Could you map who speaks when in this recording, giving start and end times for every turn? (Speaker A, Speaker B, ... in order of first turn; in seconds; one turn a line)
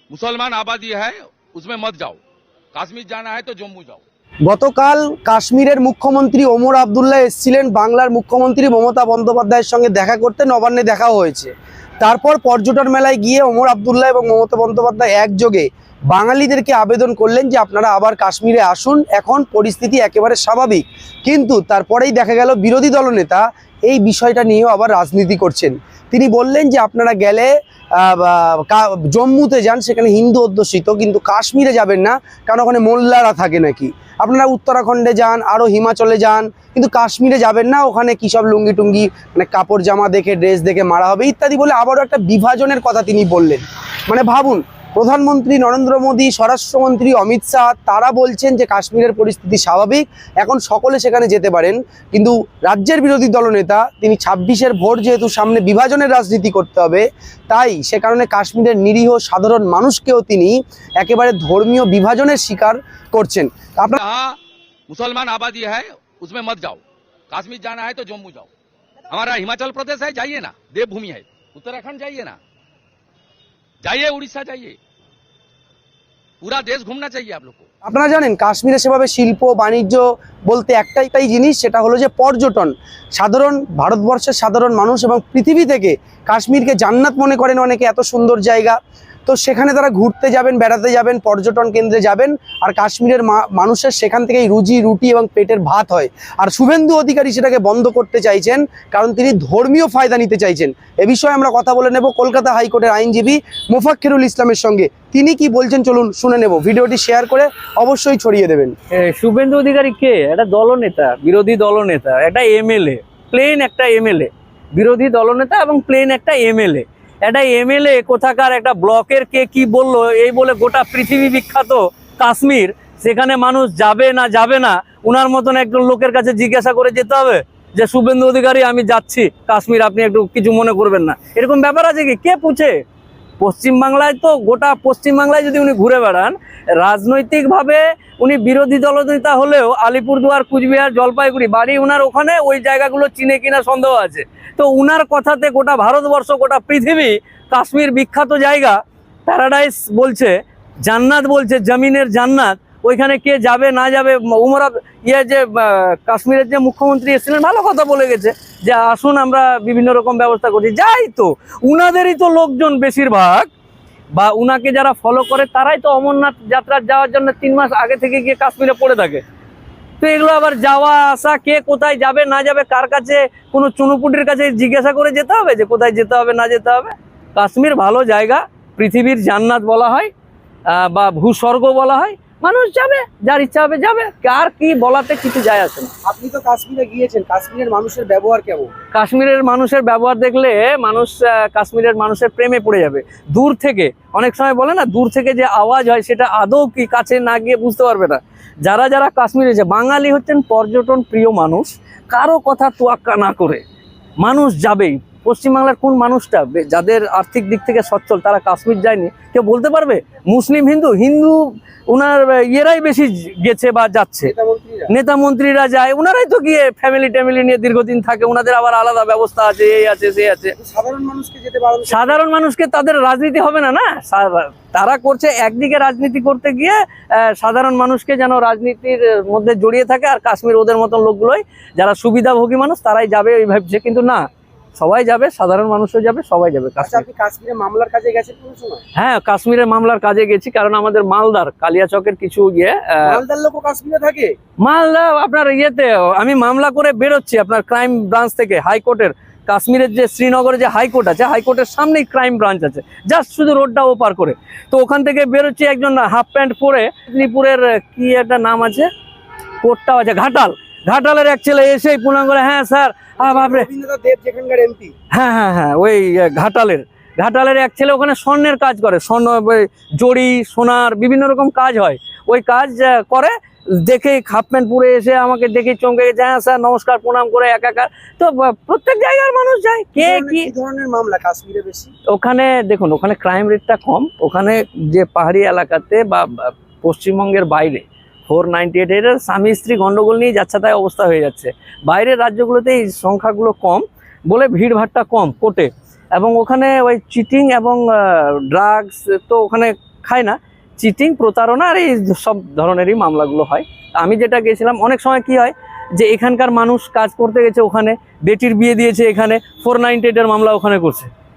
Speaker A: 0.1-2.2
Speaker A: 2.7-4.0
Speaker B: 4.5-64.0
Speaker A: 64.0-64.4
Speaker A: 64.9-68.5
Speaker A: 69.1-72.4
Speaker A: 73.8-74.8
Speaker A: 76.4-77.7
Speaker B: 77.8-108.7
Speaker C: 108.9-132.8
Speaker C: 133.4-163.5
Speaker C: 164.1-169.2
Speaker C: 170.0-180.1
Speaker C: 180.7-185.9
Speaker B: 186.1-188.7
Speaker C: 188.9-203.6
Speaker C: 204.2-214.3
Speaker B: 214.2-214.9
Speaker C: 214.9-220.6
Speaker B: 220.6-222.2
Speaker C: 221.9-237.1
Speaker B: 236.8-238.8
Speaker C: 239.0-243.2
Speaker B: 243.1-244.3
Speaker C: 244.6-258.9
Speaker C: 259.6-263.7
Speaker B: 263.2-264.9
Speaker C: 265.1-280.5
Speaker B: 280.0-281.9
Speaker C: 282.1-311.1